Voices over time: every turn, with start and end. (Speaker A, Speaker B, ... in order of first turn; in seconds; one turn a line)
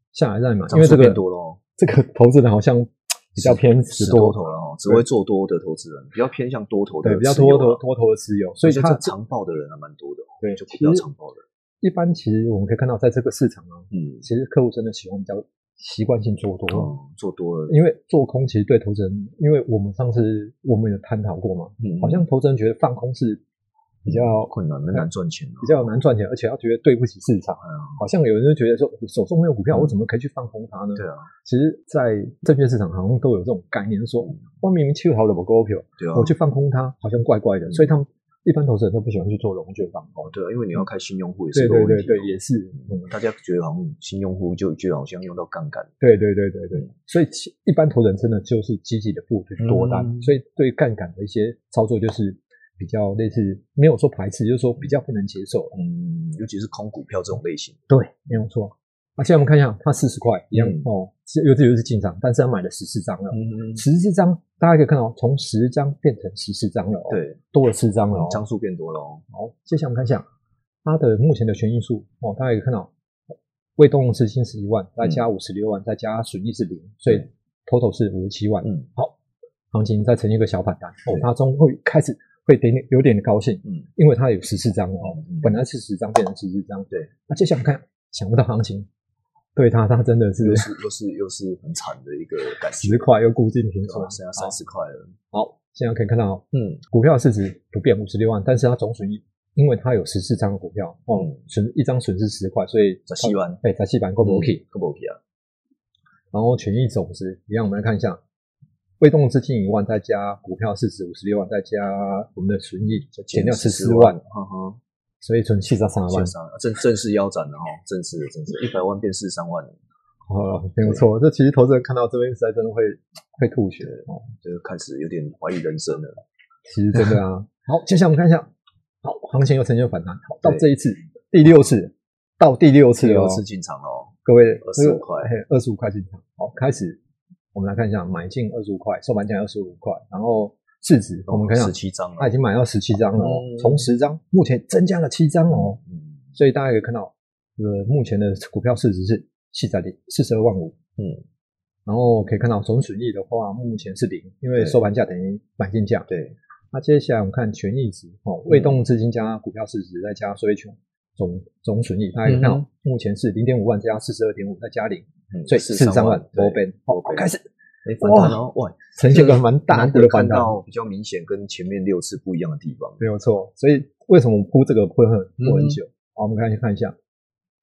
Speaker A: 0.1-1.2
Speaker B: 0.7-1.6
Speaker A: 1.8-4.4
Speaker B: 3.4-7.8
Speaker A: 7.0-9.1
Speaker B: 8.6-11.4
Speaker A: 10.4-11.1
Speaker A: 11.8-16.9
Speaker B: 13.9-14.2
Speaker B: 16.7-17.8
Speaker A: 17.7-23.4
Speaker B: 21.8-22.2
Speaker A: 24.1-25.1
Speaker B: 24.1-25.9
Speaker A: 25.6-40.3
Speaker B: 27.6-28.0
Speaker B: 31.0-31.3
Speaker B: 36.0-36.3
Speaker B: 40.2-45.9
Speaker A: 41.5-43.1
Speaker A: 46.0-55.8
Speaker B: 49.6-50.3
Speaker B: 55.7-57.8
Speaker A: 57.9-68.4
Speaker B: 60.5-60.9
Speaker B: 63.3-63.8
Speaker B: 67.1-67.4
Speaker B: 68.1-69.2
Speaker A: 69.3-70.3
Speaker A: 70.8-72.9
Speaker A: 73.8-79.2
Speaker A: 79.7-88.9
Speaker B: 85.0-85.6
Speaker A: 89.6-90.7
Speaker B: 90.4-93.0
Speaker A: 92.8-94.6
Speaker B: 93.8-95.1
Speaker A: 95.3-104.6
Speaker B: 96.5-96.8
Speaker B: 103.1-103.6
Speaker B: 104.2-105.2
Speaker A: 106.3-108.2
Speaker A: 109.0-114.2
Speaker B: 113.2-114.8
Speaker A: 115.2-116.3
Speaker B: 116.1-119.8
Speaker A: 120.3-124.2
Speaker B: 123.8-126.2
Speaker A: 126.7-128.5
Speaker A: 129.0-133.4
Speaker B: 133.0-135.3
Speaker A: 134.2-137.0
Speaker A: 137.5-145.8
Speaker B: 141.3-142.4
Speaker B: 143.2-143.9
Speaker B: 145.5-146.2
Speaker A: 146.3-150.8
Speaker B: 151.0-151.2
Speaker A: 151.9-156.1
Speaker B: 156.1-156.4
Speaker A: 156.7-167.4
Speaker B: 158.5-158.8
Speaker B: 162.2-162.7
Speaker B: 165.3-167.3
Speaker B: 167.8-173.0
Speaker A: 168.0-168.4
Speaker A: 169.0-170.6
Speaker A: 173.0-176.9
Speaker B: 175.4-175.8